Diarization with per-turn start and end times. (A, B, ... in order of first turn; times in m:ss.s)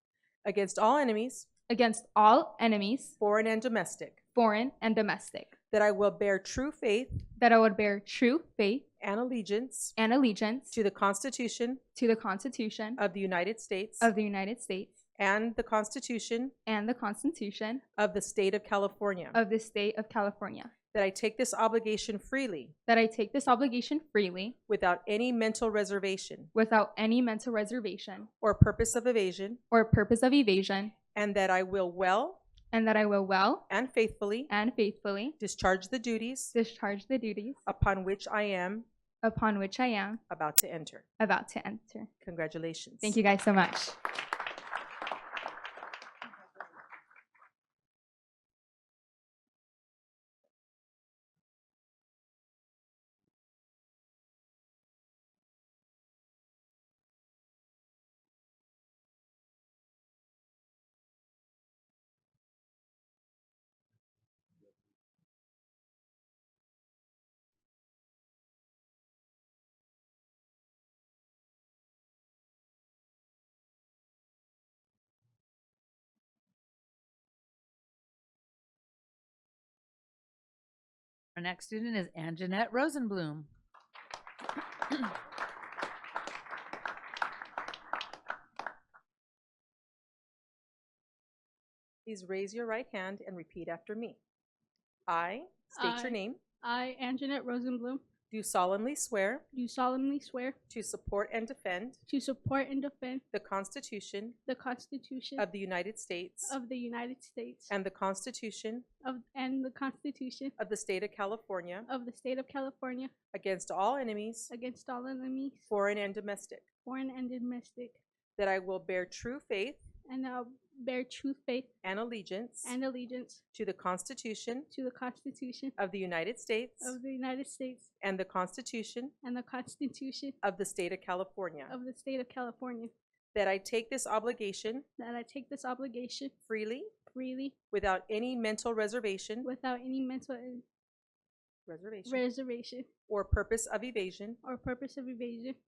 0:00.4-0:01.5 A
0:01.7-0:03.2 B
0:03.2-0:04.2 A
0:04.3-0:05.5 B
0:05.7-0:07.3 A
0:07.4-0:08.8 B
0:09.0-0:10.0 A
0:10.0-0:10.8 B
0:10.7-0:11.8 A
0:11.9-0:13.0 B
0:13.0-0:14.1 A
0:14.0-0:14.9 B
0:15.2-0:16.5 A
0:16.6-0:17.8 B
0:18.0-0:19.4 A
0:19.3-0:20.7 B
0:20.9-0:22.7 A
0:22.9-0:24.6 B
0:24.7-0:26.5 A
0:26.5-0:28.3 B
0:28.4-0:29.6 A
0:29.7-0:30.9 B
0:31.1-0:32.4 A
0:32.7-0:33.6 B
0:33.7-0:34.5 A
0:34.5-0:35.4 B
0:35.4-0:36.5 A
0:36.5-0:37.6 B
0:37.7-0:38.8 A
0:39.2-0:40.2 B
0:40.3-0:41.0 A
0:41.2-0:42.1 B
0:42.2-0:43.2 A
0:43.0-0:44.0 B
1:21.4-1:23.5 C
1:32.0-1:34.2 A
1:35.1-1:36.4 A
1:35.7-1:38.0 D
1:38.3-1:39.4 A
1:39.5-1:40.6 D
1:40.7-1:42.0 A
1:42.1-1:43.2 D
1:43.3-1:44.4 A
1:44.5-1:45.5 D
1:45.4-1:46.6 A
1:46.4-1:47.7 D
1:47.7-1:48.8 A
1:49.0-1:50.6 D
1:50.6-1:51.9 A
1:51.9-1:53.1 D
1:53.3-1:54.5 A
1:54.5-1:55.7 D
1:55.7-1:56.6 A
1:56.8-1:58.0 D
1:58.4-1:59.8 A
2:00.1-2:01.7 D
2:01.8-2:02.8 A
2:02.6-2:03.4 D
2:03.5-2:04.7 A
2:04.7-2:05.8 D
2:05.8-2:07.0 A
2:06.8-2:07.9 D
2:08.0-2:09.1 A
2:09.2-2:10.4 D
2:10.4-2:11.7 A
2:11.7-2:12.9 D
2:13.3-2:14.8 A
2:15.0-2:16.3 D
2:16.5-2:16.9 A
2:17.1-2:17.6 D
2:17.7-2:19.5 A
2:19.4-2:20.6 D
2:21.7-2:22.2 A
2:22.0-2:22.9 D
2:23.1-2:24.4 A
2:24.4-2:25.6 D